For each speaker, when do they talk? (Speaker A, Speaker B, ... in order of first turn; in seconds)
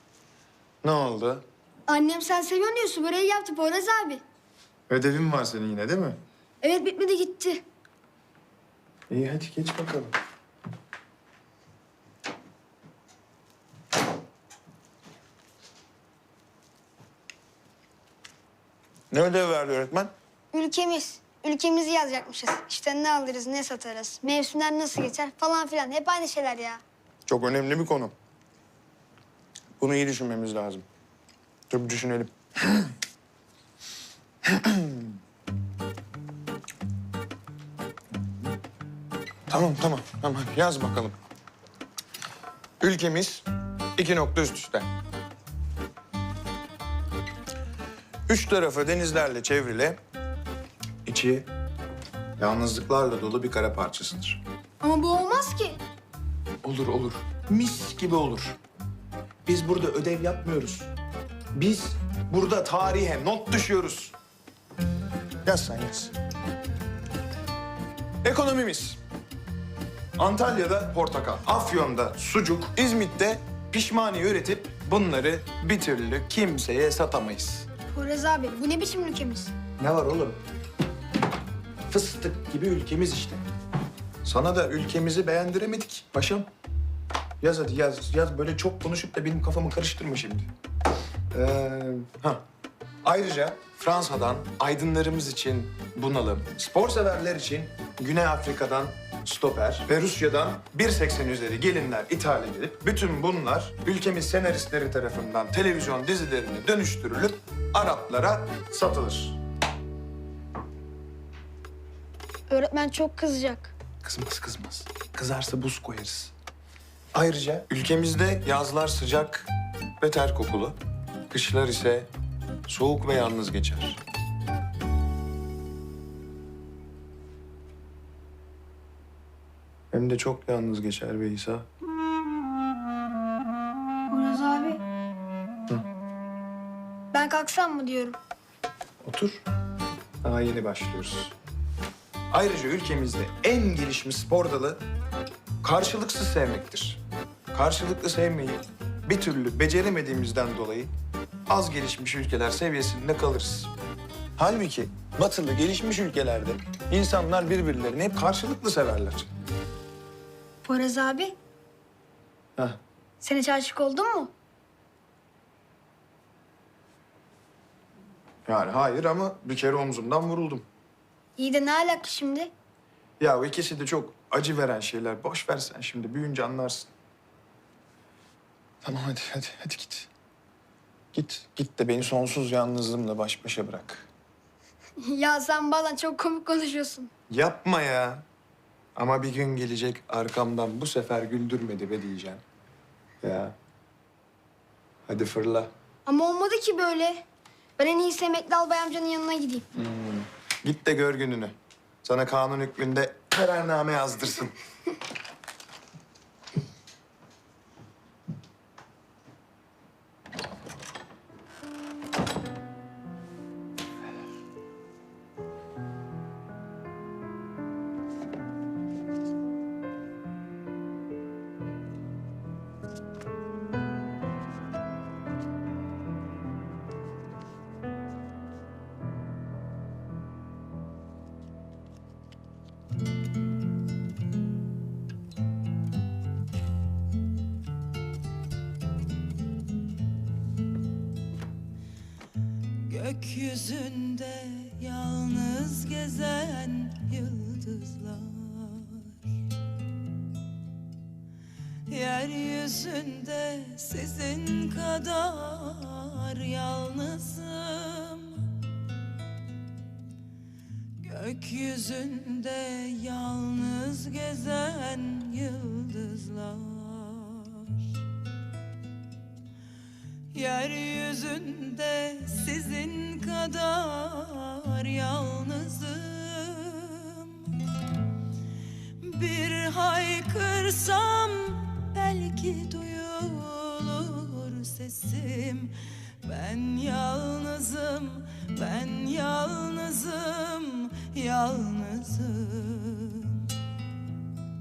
Speaker A: 0.8-1.4, 4.9-6.2, 9.1-10.1, 19.1-20.1, 27.3-28.1, 29.8-30.8, 31.7-32.9, 34.5-35.0, 39.5-41.1, 42.8-43.4, 44.0-44.9, 48.3-50.0, 51.0-51.5, 52.4-54.4, 56.6-58.6, 59.4-60.9, 61.5-64.1, 65.4-66.1, 68.2-69.0, 70.2-77.7, 79.8-80.4, 81.9-83.4, 84.2-86.5, 87.4-90.5, 91.3-92.4, 93.0-109.4, 114.0-116.3, 117.1-119.5, 120.0-120.8, 121.3-122.1, 122.7-124.0, 129.9-131.7, 139.0-139.4, 140.2-141.3, 142.3-144.8, 145.6-147.0, 147.5-150.9, 151.5-153.7, 154.4-159.3, 168.5-170.6, 173.2-176.9, 178.8-180.1, 181.1-184.1, 187.3-188.2, 188.9-192.4, 193.2-193.5, 195.1-195.7, 199.7-204.5
Speaker B: 1.9-4.2, 6.6-7.6, 20.5-26.8, 54.8-55.8, 77.9-79.5, 112.5-113.7, 134.1-134.8, 137.1-138.2, 160.6-161.3, 163.2-164.3, 171.4-172.5, 185.0-187.1, 196.1-197.2, 197.8-199.6
Speaker C: 242.8-249.1, 251.9-258.5, 261.0-267.8, 270.3-277.5, 279.0-293.5